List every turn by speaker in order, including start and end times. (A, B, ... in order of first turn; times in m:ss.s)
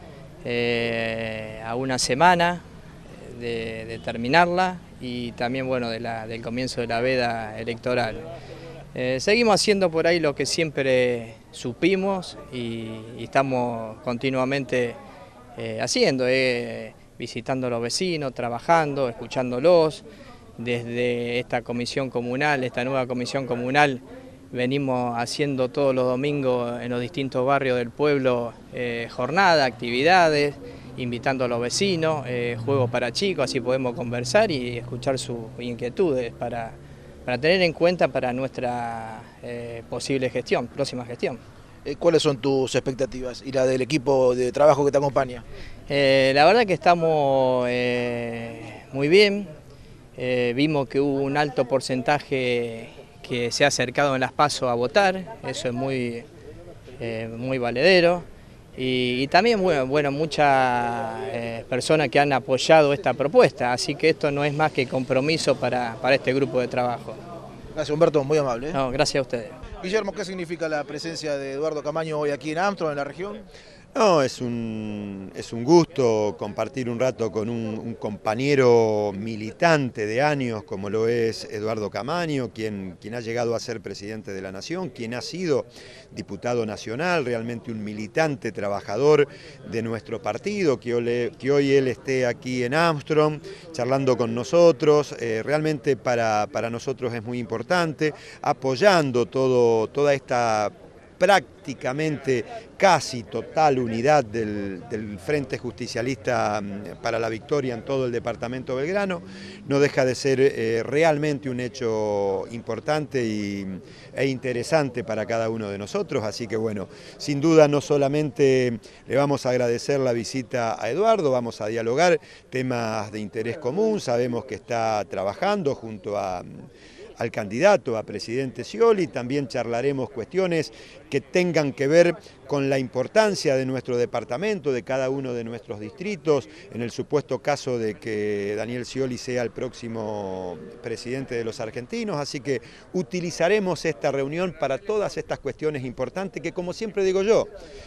0:00.4-0:08.3 A
0:08.9-0:15.0 A
0:15.6-0:20.0 A
0:20.6-0:41.4 A
0:41.8-0:45.4 B
0:45.9-0:49.5 A
0:50.2-0:56.3 A
0:57.0-0:58.3 A
0:58.8-1:07.2 A
1:07.7-1:08.8 B
1:08.7-1:09.6 A
1:09.8-1:13.5 B
1:13.9-2:06.7 C
2:07.2-2:27.5 C